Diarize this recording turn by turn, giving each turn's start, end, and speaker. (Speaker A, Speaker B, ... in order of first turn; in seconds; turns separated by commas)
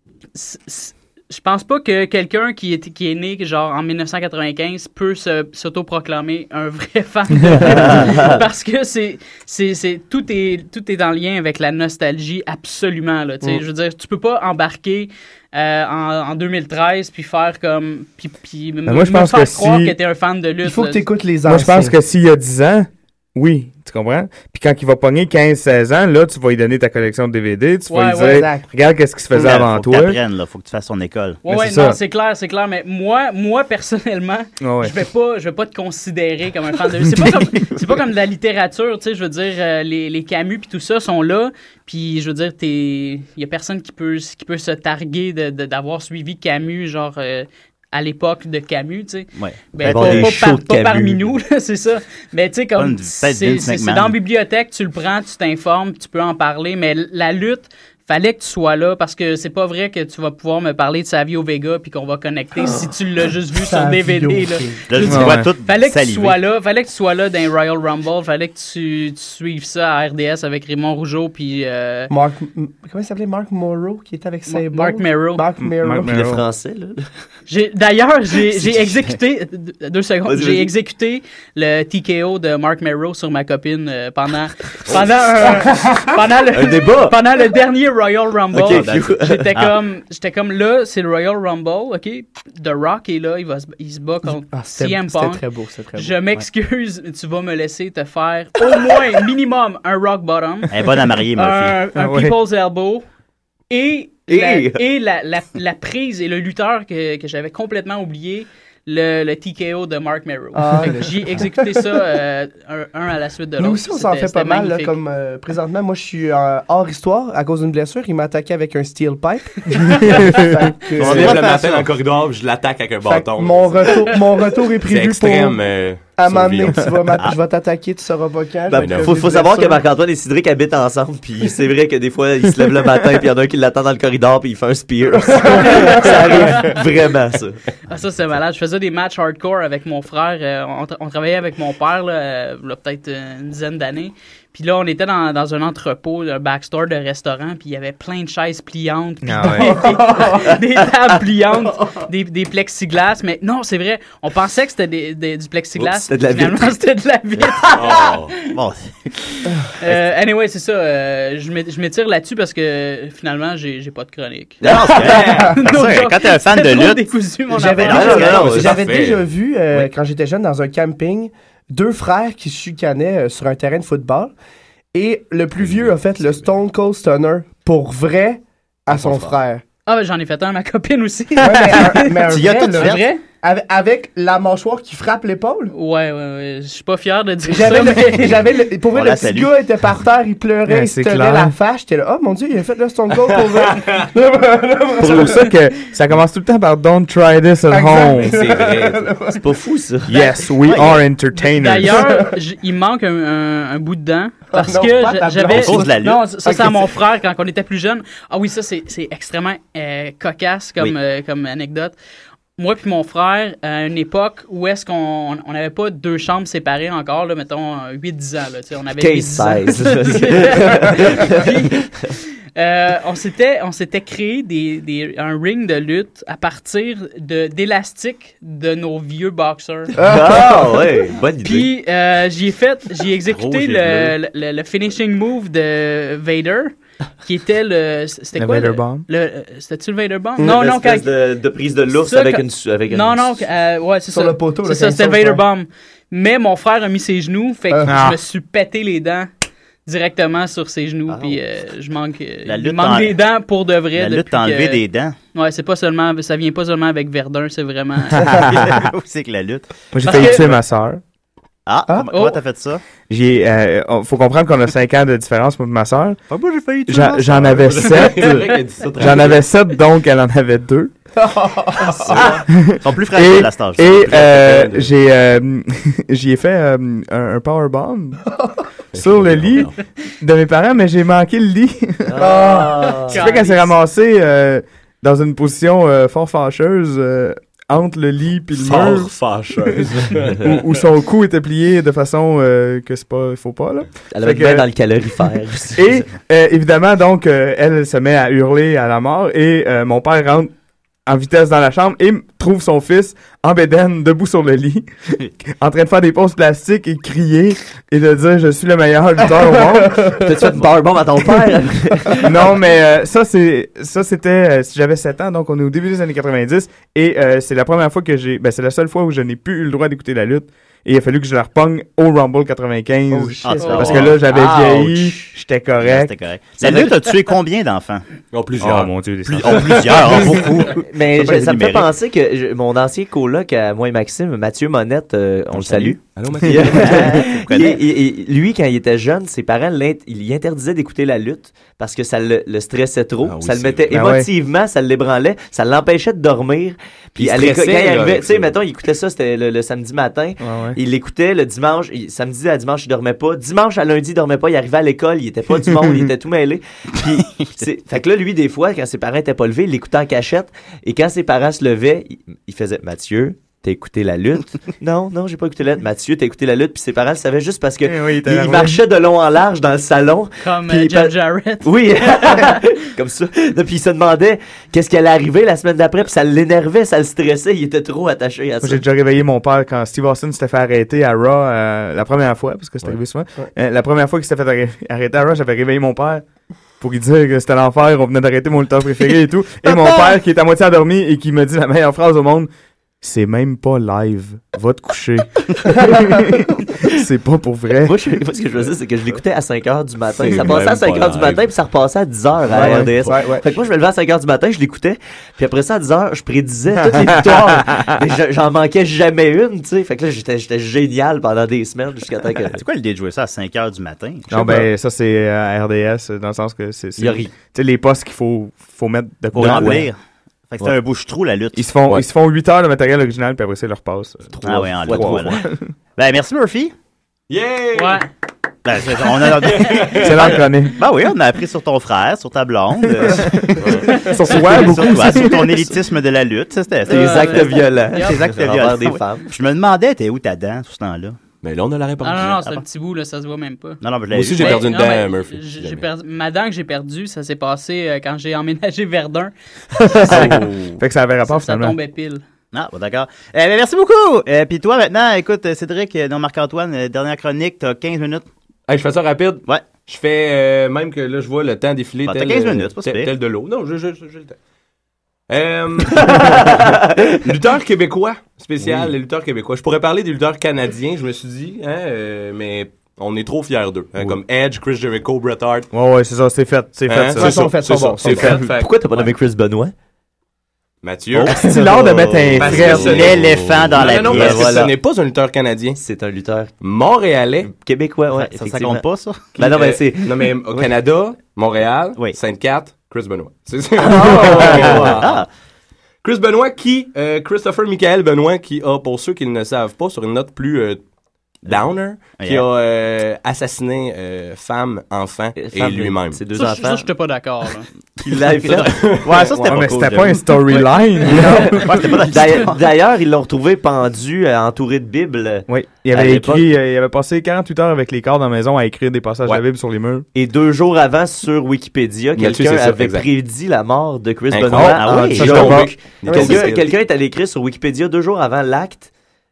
Speaker A: 0.3-21.0, Speaker B: 7.8-8.3, Speaker C: 18.9-20.0, Speaker D: 20.6-21.9, Speaker C: 21.4-30.2, Speaker A: 27.9-28.5, Speaker D: 28.2-28.7, Speaker E: 29.4-31.4, Speaker A: 31.4-72.1, Speaker C: 31.5-32.0, Speaker C: 34.6-35.0, Speaker E: 49.4-50.4, Speaker B: 49.8-51.2, Speaker E: 52.8-54.2, Speaker D: 63.5-64.8, Speaker E: 64.9-66.4, Speaker C: 65.0-65.5, Speaker D: 72.1-76.2, Speaker A: 74.5-75.5, Speaker C: 75.6-76.4, Speaker B: 76.1-77.1, Speaker A: 77.5-95.4, Speaker B: 80.3-80.7, Speaker B: 86.5-87.2, Speaker B: 88.5-89.5, Speaker F: 88.6-89.2, Speaker D: 94.5-96.1, Speaker A: 96.0-100.7, Speaker E: 100.7-101.8, Speaker A: 101.3-103.0, Speaker C: 102.0-102.4, Speaker A: 103.7-115.0, Speaker B: 104.3-104.8, Speaker D: 110.5-111.8, Speaker D: 113.6-121.5, Speaker F: 121.0-124.1, Speaker E: 121.0-121.9, Speaker D: 123.0-129.8, Speaker F: 124.8-126.9, Speaker B: 128.7-137.6, Speaker F: 128.7-129.3, Speaker D: 135.4-136.6, Speaker A: 135.8-136.7, Speaker A: 137.9-158.5, Speaker C: 149.2-149.9, Speaker D: 149.9-150.4, Speaker B: 155.8-156.8, Speaker F: 157.7-158.3, Speaker E: 158.5-158.8, Speaker A: 159.8-168.4, Speaker E: 164.6-167.1, Speaker B: 164.7-165.2, Speaker F: 165.0-165.5, Speaker D: 165.3-165.5, Speaker D: 167.5-174.3, Speaker E: 167.7-168.7, Speaker B: 167.8-168.8, Speaker F: 168.4-169.3, Speaker D: 174.9-179.6, Speaker F: 175.6-176.4, Speaker F: 178.9-179.3, Speaker A: 179.9-182.2, Speaker D: 181.4-185.7, Speaker E: 182.3-183.0, Speaker A: 182.8-183.2, Speaker A: 185.7-188.4, Speaker D: 187.5-195.4, Speaker E: 188.9-189.5, Speaker C: 190.7-191.5, Speaker F: 193.7-194.0, Speaker C: 195.0-198.4, Speaker D: 197.7-199.4, Speaker B: 198.3-200.2, Speaker F: 198.4-198.8, Speaker C: 200.1-202.1, Speaker E: 200.6-201.0, Speaker A: 201.4-212.0, Speaker D: 201.9-202.3, Speaker D: 204.5-206.7, Speaker E: 205.5-206.3, Speaker A: 212.6-230.0, Speaker B: 219.0-222.1, Speaker D: 230.0-230.6, Speaker B: 230.0-231.7, Speaker A: 231.4-236.7, Speaker E: 233.3-234.2, Speaker A: 237.2-241.1, Speaker C: 238.4-239.1, Speaker B: 240.4-243.4, Speaker A: 241.9-249.3, Speaker D: 244.1-245.4, Speaker D: 247.7-248.0, Speaker C: 247.9-248.2, Speaker A: 249.9-254.8, Speaker B: 251.1-251.4, Speaker E: 252.5-253.2, Speaker E: 253.9-255.2, Speaker A: 255.3-258.3, Speaker E: 258.1-260.4, Speaker C: 258.4-258.8, Speaker C: 259.9-261.0, Speaker A: 260.0-260.5, Speaker E: 261.7-262.8, Speaker A: 262.1-262.4, Speaker C: 263.1-266.2, Speaker E: 266.3-268.1, Speaker C: 266.9-270.9, Speaker F: 267.6-269.4, Speaker D: 271.2-272.2, Speaker E: 272.1-274.4, Speaker C: 272.5-278.2, Speaker F: 274.0-274.9, Speaker F: 278.9-279.8, Speaker C: 278.9-282.2, Speaker B: 282.1-283.2, Speaker D: 282.2-283.1, Speaker A: 283.1-283.8, Speaker C: 283.1-289.1, Speaker F: 288.6-290.6, Speaker C: 290.4-294.7, Speaker B: 294.1-295.9, Speaker C: 295.8-300.5, Speaker C: 301.1-304.9, Speaker C: 305.4-310.2, Speaker B: 310.2-312.3, Speaker C: 312.2-326.1, Speaker E: 323.1-325.3, Speaker A: 323.6-324.1, Speaker B: 324.1-324.8, Speaker E: 325.8-328.1, Speaker B: 326.6-326.9, Speaker F: 328.3-330.4, Speaker C: 328.6-330.2, Speaker E: 329.3-331.9, Speaker B: 330.7-378.8, Speaker E: 335.5-337.8, Speaker F: 336.1-337.4, Speaker F: 343.2-344.0, Speaker C: 343.9-344.3, Speaker F: 347.2-348.5, Speaker C: 350.4-350.8, Speaker C: 367.8-368.8, Speaker A: 370.4-372.5, Speaker C: 378.6-386.2, Speaker C: 386.8-392.5, Speaker C: 393.0-397.9, Speaker B: 397.8-412.6, Speaker F: 400.2-401.5, Speaker C: 402.5-402.9, Speaker F: 402.6-403.1, Speaker D: 402.9-403.5, Speaker C: 406.8-407.9, Speaker E: 412.5-414.4, Speaker C: 414.3-419.9, Speaker B: 417.0-417.3, Speaker E: 419.3-420.0, Speaker B: 419.4-419.8, Speaker E: 420.5-421.7, Speaker C: 421.6-424.4, Speaker B: 424.4-425.4, Speaker E: 424.4-425.4, Speaker C: 424.9-425.6, Speaker E: 426.0-426.7, Speaker F: 427.3-428.1, Speaker A: 427.8-428.1, Speaker E: 428.6-441.2, Speaker F: 429.3-430.4, Speaker C: 429.9-430.8, Speaker F: 433.6-433.9, Speaker C: 433.9-435.7, Speaker A: 436.9-438.2, Speaker B: 436.9-439.3, Speaker F: 441.4-442.5, Speaker A: 442.0-443.8, Speaker E: 443.8-444.7, Speaker F: 444.1-445.8, Speaker A: 444.4-449.3, Speaker C: 449.9-451.8, Speaker F: 450.1-450.8, Speaker A: 451.3-452.2, Speaker E: 452.5-458.3, Speaker F: 458.7-464.4, Speaker E: 462.1-463.1, Speaker F: 465.3-466.6, Speaker B: 466.0-467.2, Speaker F: 467.1-475.7, Speaker C: 475.7-477.5, Speaker F: 476.9-478.8, Speaker D: 477.2-478.4, Speaker B: 478.2-479.7, Speaker F: 480.8-481.4, Speaker B: 481.2-484.7, Speaker C: 481.2-483.1, Speaker F: 482.4-485.8, Speaker E: 482.7-484.7, Speaker B: 485.8-486.6, Speaker F: 486.6-487.5, Speaker B: 487.5-488.8, Speaker E: 488.1-489.3, Speaker F: 489.4-495.1, Speaker B: 489.4-490.4, Speaker B: 493.8-495.2, Speaker E: 494.6-495.3, Speaker F: 496.0-500.8, Speaker F: 501.4-506.2, Speaker E: 502.2-502.5, Speaker B: 505.4-506.9, Speaker A: 506.3-507.7, Speaker B: 508.0-510.1, Speaker E: 508.5-510.3, Speaker F: 508.6-509.7, Speaker C: 509.4-511.9, Speaker E: 511.1-512.6, Speaker B: 511.5-516.5, Speaker C: 515.5-520.1, Speaker B: 520.1-528.9, Speaker F: 522.1-523.1, Speaker F: 524.3-526.8, Speaker C: 524.5-526.5, Speaker E: 524.6-525.6